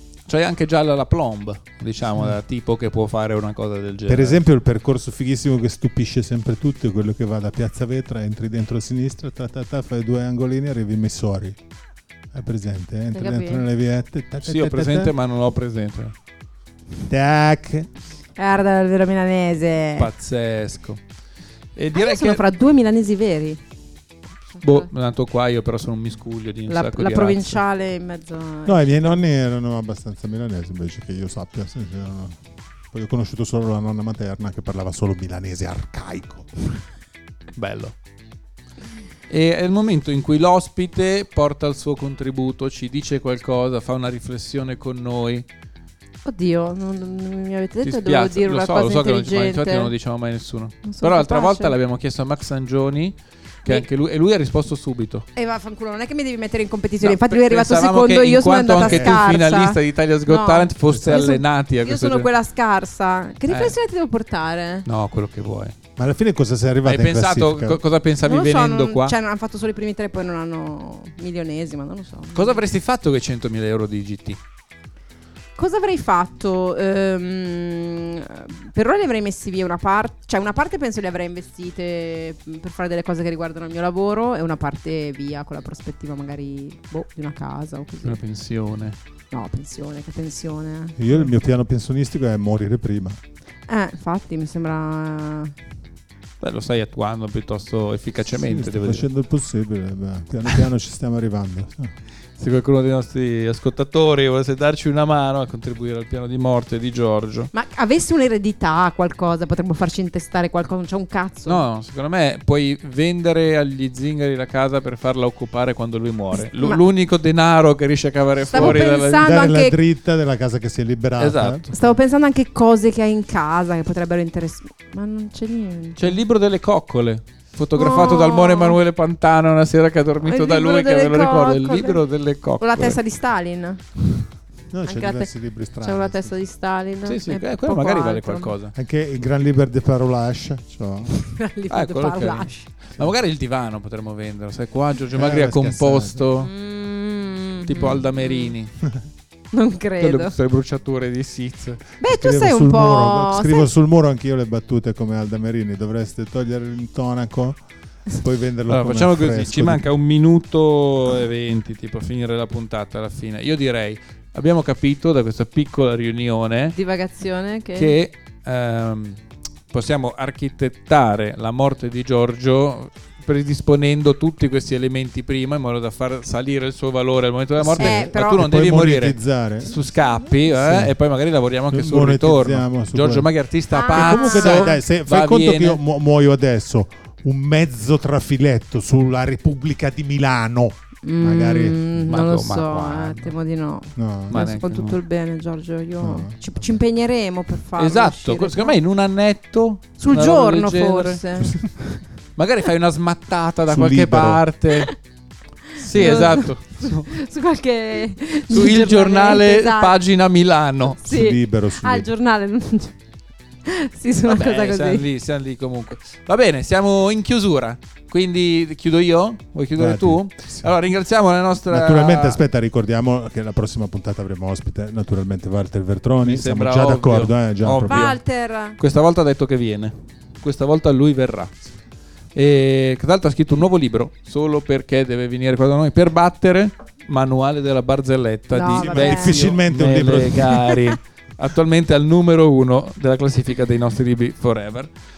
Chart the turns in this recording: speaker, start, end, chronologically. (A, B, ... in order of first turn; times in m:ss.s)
0:00.3-0:04.4 A
0:04.1-0:11.6 B
0:12.3-0:15.1 B
0:13.1-0:13.6 C
0:14.4-0:16.1 A
0:17.1-0:17.9 B
0:18.4-0:20.1 C
0:20.0-0:21.0 A
0:21.8-0:22.4 A
0:21.9-0:23.6 C
0:24.5-0:24.9 C
0:24.6-0:27.6 A
0:26.7-0:29.1 C
0:28.6-0:32.4 B
0:32.9-0:36.6 B
0:37.6-0:37.9 A
0:39.3-0:45.4 A
0:46.2-0:49.9 C
0:47.8-0:55.2 A
0:50.8-0:51.8 C
0:55.3-1:04.8 C
0:57.0-1:02.3 A
0:58.8-0:59.2 B
1:00.9-1:01.2 B
1:03.5-1:03.7 A
1:04.8-1:05.8 A
1:06.0-1:07.8 B
1:06.8-1:09.1 A
1:08.2-1:12.6 C
1:12.3-1:14.4 A
1:15.6-1:28.2 C
1:28.0-1:29.0 A
1:29.3-1:31.0 C
1:31.0-1:33.2 B
1:33.7-1:35.5 C
1:36.4-1:39.0 A
1:38.3-1:41.9 B
1:42.4-1:47.5 A
1:47.5-1:51.6 C
1:51.4-1:59.3 A
1:56.3-1:56.8 C
1:58.5-1:59.8 C
1:58.5-2:01.9 B
2:01.2-2:01.7 A
2:01.7-2:06.2 C
2:06.0-2:13.0 A
2:07.8-2:08.8 C
2:10.2-2:12.0 C
2:12.6-2:13.8 C
2:14.7-2:16.3 B
2:14.8-2:15.3 C
2:15.8-2:18.5 C
2:17.0-2:18.7 A
2:18.7-2:21.1 B
2:21.2-2:22.6 C
2:21.7-2:26.5 A
2:25.1-2:26.2 B
2:26.4-2:28.6 C
2:27.7-2:28.9 A
2:29.5-2:30.3 C
2:30.0-2:31.8 A
2:32.0-2:33.7 C
2:32.1-2:37.6 B
2:38.1-2:39.8 B
2:38.7-2:46.8 A
2:46.7-2:48.0 C
2:47.8-2:49.2 A
2:49.7-3:05.8 A
2:57.6-2:59.7 B
2:57.7-2:58.4 C
3:00.5-3:00.9 B
3:01.7-3:03.3 B
3:03.7-3:04.8 C
3:03.9-3:11.8 B
3:11.0-3:18.8 C
3:12.0-3:13.3 A
3:14.0-3:14.4 B
3:14.3-3:15.0 A
3:16.0-3:16.8 B
3:17.8-3:21.8 A
3:20.0-3:21.6 C
3:22.4-3:24.9 A
3:23.7-3:24.4 B
3:25.7-3:27.2 A
3:25.9-3:29.9 C
3:28.5-3:31.0 A
3:31.0-3:33.0 C
3:31.0-3:32.1 B
3:33.6-3:35.1 C
3:34.3-3:42.4 A
3:39.8-3:40.7 B
3:41.7-3:48.1 B
3:46.2-3:48.2 A
3:47.8-3:48.8 C
3:48.8-3:51.5 A
3:52.3-4:04.9 A
3:58.5-3:59.5 C
3:58.7-4:00.6 B